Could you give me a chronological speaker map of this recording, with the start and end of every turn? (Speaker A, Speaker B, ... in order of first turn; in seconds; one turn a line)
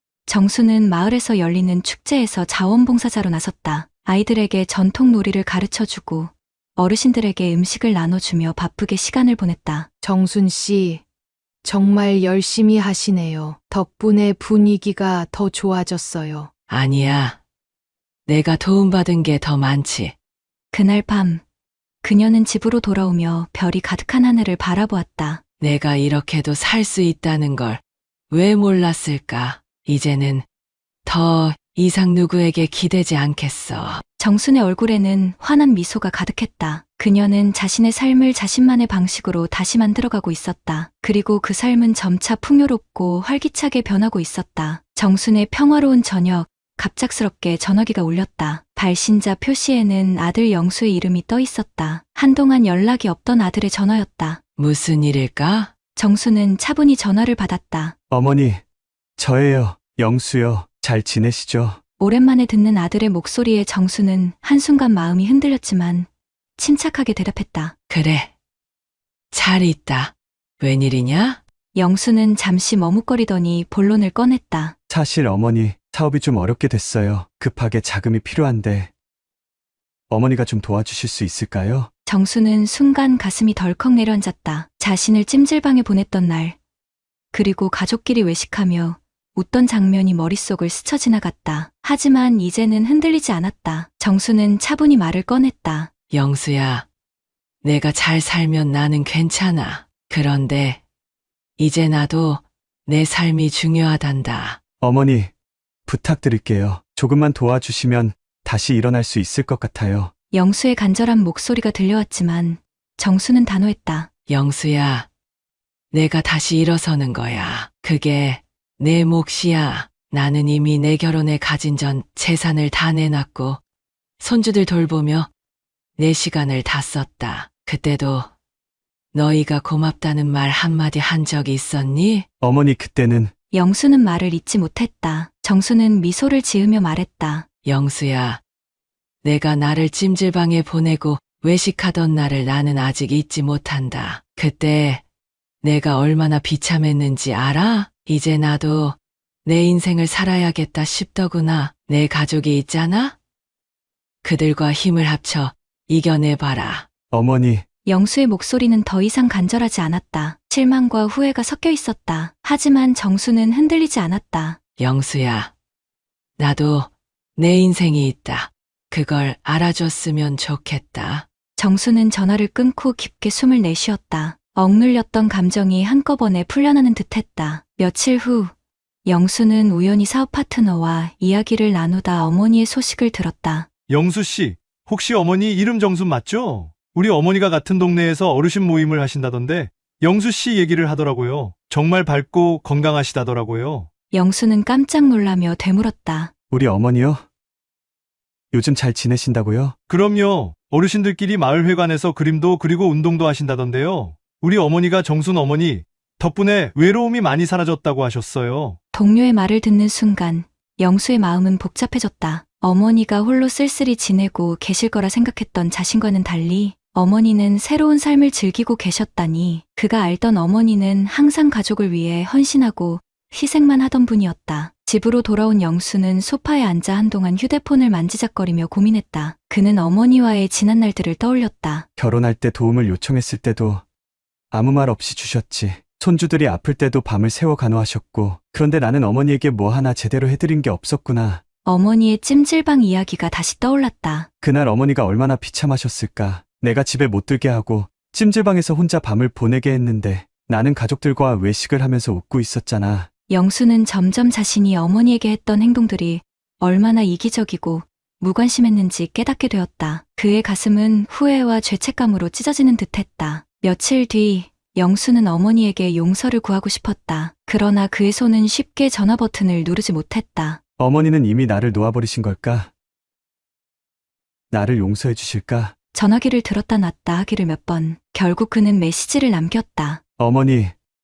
Speaker A: 0.3-9.9
Speaker B: 10.0-11.0
Speaker B: 11.6-16.5
Speaker C: 16.7-17.4
Speaker C: 18.3-20.1
Speaker A: 20.7-21.4
Speaker A: 22.0-25.4
Speaker C: 25.6-30.4
Speaker C: 31.1-34.0
Speaker A: 34.2-54.4
Speaker C: 54.6-55.7
Speaker A: 56.0-57.9
Speaker D: 58.1-58.6
Speaker D: 59.2-61.8
Speaker A: 62.0-67.7
Speaker C: 67.9-68.3
Speaker C: 69.3-71.4
Speaker A: 71.7-74.7
Speaker D: 74.9-78.9
Speaker D: 80.1-81.9
Speaker A: 82.0-86.5
Speaker A: 87.3-95.9
Speaker C: 96.1-96.8
Speaker C: 97.6-100.8
Speaker C: 101.6-104.6
Speaker D: 104.8-105.3
Speaker D: 105.8-110.1
Speaker A: 110.3-114.1
Speaker C: 114.3-115.1
Speaker C: 115.9-123.6
Speaker C: 124.2-125.3
Speaker C: 126.0-128.3
Speaker C: 129.1-132.2
Speaker D: 132.4-133.3
Speaker A: 133.5-137.4
Speaker C: 137.6-138.4
Speaker C: 139.2-145.0
Speaker C: 145.6-153.2
Speaker C: 154.2-156.8
Speaker D: 157.1-157.6
Speaker A: 157.8-164.6
Speaker C: 164.8-165.5
Speaker C: 166.4-171.2
Speaker A: 171.6-178.5
Speaker A: 179.1-183.7
Speaker E: 183.9-193.9
Speaker A: 194.1-196.3
Speaker D: 196.5-197.2
Speaker D: 198.5-199.8
Speaker E: 199.9-208.8
Speaker A: 208.9-231.9
Speaker D: 232.0-233.8
Speaker D: 234.5-241.4
Speaker A: 241.6-244.3
Speaker D: 244.4-253.1
Speaker A: 253.3-270.6
Speaker D: 270.8-272.7
Speaker D: 274.5-275.7
Speaker A: 275.9-280.0
Speaker D: 280.2-280.7